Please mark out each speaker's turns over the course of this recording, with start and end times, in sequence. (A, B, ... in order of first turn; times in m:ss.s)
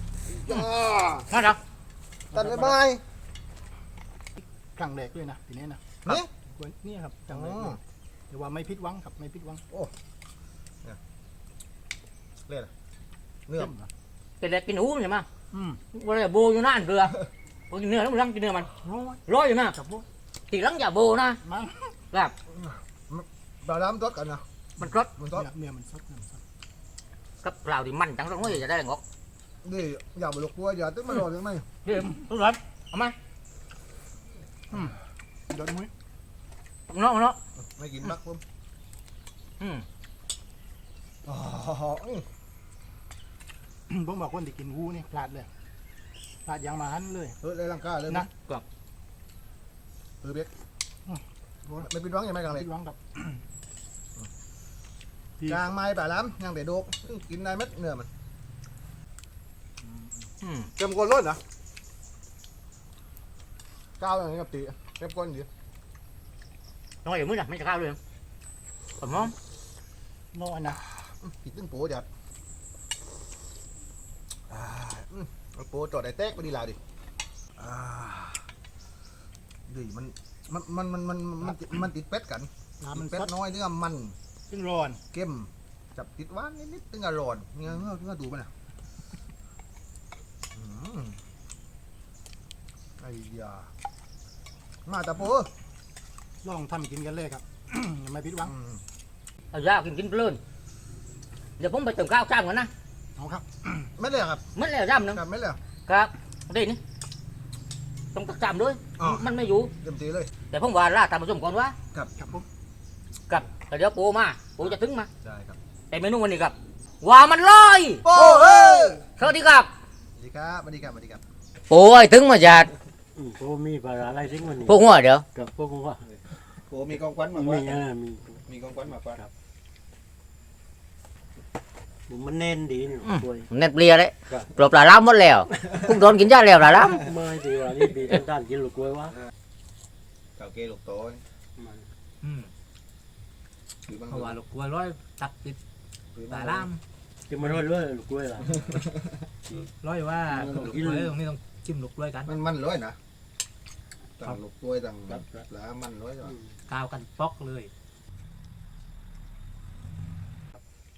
0:00.3-0:01.3 A
0:01.3-0:01.6 B
0:02.3-0:03.0 A
0:02.4-0:02.7 C
0:04.4-0:05.8 C
0:06.5-0:07.8 C
0:07.3-0:07.8 A
0:08.3-0:09.6 C
0:13.5-0:13.7 A
0:13.6-0:13.9 C
0:14.4-0:15.3 B
0:15.5-0:15.8 C
0:15.9-0:17.2 B
0:17.7-0:18.7 B
0:18.8-0:19.2 C
0:19.3-0:19.8 B
0:19.8-0:20.0 C
0:20.5-0:21.4 B
0:21.4-0:21.9 C
0:22.5-0:24.5 A
0:24.8-0:25.1 B
0:25.2-0:25.5 A
0:25.4-0:26.4 C
0:27.4-0:29.0 B
0:29.6-0:31.7 A
0:31.8-0:33.2 B
0:34.7-0:35.0 C
0:35.5-0:35.9 C
0:36.9-0:37.4 B
0:37.8-0:38.4 A
0:39.6-0:39.9 B
0:41.2-0:42.3 A
0:43.9-0:45.5 C
0:46.4-0:47.4 C
0:47.4-0:48.3 A
0:48.1-0:48.6 C
0:50.2-0:50.5 A
0:51.1-0:51.9 C
0:51.8-0:52.7 A
0:52.6-0:53.4 C
0:55.5-0:58.1 A
0:59.8-1:00.1 C
1:00.4-1:00.7 B
1:00.8-1:01.4 A
1:04.0-1:05.5 A
1:07.0-1:08.0 B
1:09.0-1:09.3 B
1:10.3-1:10.8 C
1:11.0-1:12.1 A
1:14.5-1:16.8 A
1:17.6-1:18.5 A
1:19.7-1:24.2 A
1:22.8-1:23.3 C
1:24.5-1:25.0 C
1:25.1-1:28.5 A
1:30.6-1:31.2 A
1:33.0-1:33.7 A
1:34.9-1:35.5 A
1:36.4-1:38.5 C
1:38.5-1:38.8 A
1:39.5-1:40.4 B
1:41.6-1:42.7 B
1:43.2-1:43.9 C
1:44.0-1:44.5 A
1:44.6-1:45.2 B
1:45.1-1:45.6 A
1:45.9-1:46.8 B
1:48.1-1:49.7 B
1:49.0-1:49.3 A
1:49.8-1:50.3 A
1:50.5-1:51.8 B
1:52.2-1:52.4 C
1:53.3-1:55.1 B
1:54.6-1:55.6 A
1:55.9-1:59.7 B
1:58.0-1:59.1 A
2:00.2-2:01.2 A
2:01.7-2:02.7 B
2:03.2-2:04.8 D
2:04.7-2:05.2 B
2:05.4-2:06.2 D
2:06.6-2:07.8 A
2:07.3-2:08.4 D
2:08.4-2:09.2 A
2:12.1-2:13.5 D
2:13.0-2:17.0 B
2:17.0-2:19.2 D
2:20.4-2:21.2 A
2:21.6-2:21.9 D
2:23.9-2:24.4 A
2:24.1-2:25.6 E
2:26.2-2:26.7 A
2:26.3-2:26.7 E
2:27.3-2:28.8 D
2:29.7-2:32.3 E
2:30.4-2:31.1 D
2:32.3-2:33.0 A
2:34.2-2:36.4 A
2:36.7-2:37.7 E
2:37.1-2:37.4 C